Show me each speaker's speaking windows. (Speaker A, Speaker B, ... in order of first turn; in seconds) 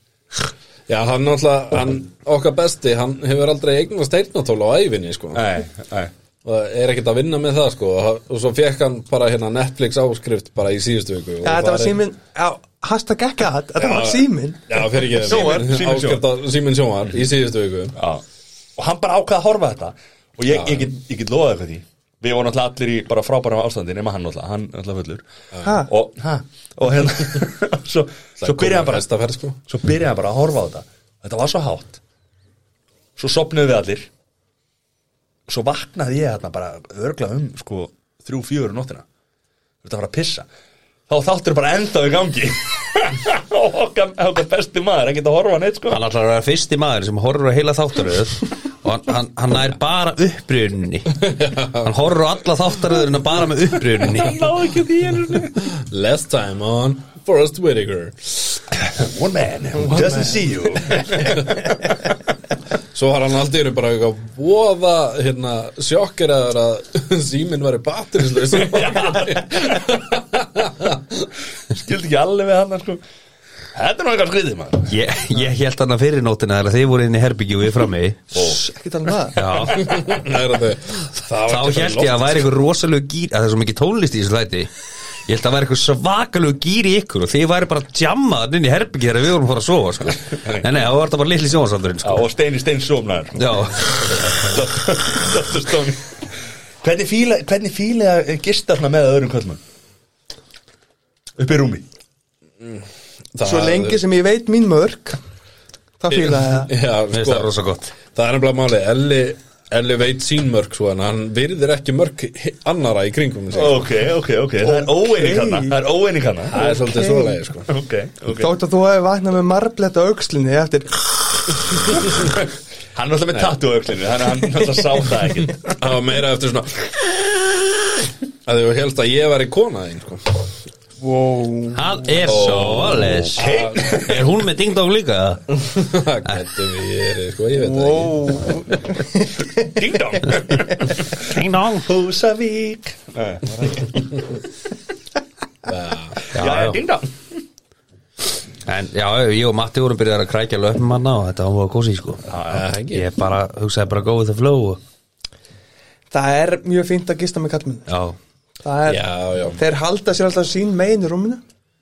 Speaker A: 0.9-5.4, 6.4-12.0, 13.8-17.9, 20.5-20.9, 28.4-29.6, 51.2-52.0, 55.7-58.6, 62.9-71.3, 79.8-82.5, 102.6-104.0, 106.1-107.5, 108.1-113.8, 116.5-117.7, 125.7-127.1, 128.4-130.4, 132.3-133.8, 135.5-138.4, 145.7-146.2, 152.5-153.1, 158.9-159.6
Speaker B: 5.3-6.1, 15.2-16.2, 17.9-18.2, 18.8-25.2, 25.9-29.1, 29.7-32.0, 33.2-34.1, 35.5-39.0, 39.8-40.5, 41.1-46.0, 54.0-55.5, 58.8-62.0, 68.5-70.0, 71.7-73.0, 73.7-74.9, 78.3-78.6, 79.4-79.8, 90.3-90.7, 92.0-93.5, 94.3-96.1, 96.8-99.6, 101.4-101.8, 113.5-116.6, 117.7-118.5, 122.0-125.8, 132.2-134.2, 139.5-144.4, 146.3-147.1, 152.3-152.7
Speaker C: 11.4-15.7, 59.9-60.5, 78.3-79.4, 103.4-105.2, 106.0-106.7, 114.6-115.8, 116.5-117.4, 118.4-121.6, 131.0-132.0, 137.6-139.7, 156.1-157.9, 158.6-161.4
Speaker D: 45.9-51.1, 51.8-54.5, 74.9-78.3, 79.3-80.1, 81.3-84.7, 85.3-92.2, 93.4-94.6, 107.1-107.9, 131.8-135.5, 141.2-141.9, 146.3-146.8, 148.7-152.2, 152.9-154.8, 157.9-158.2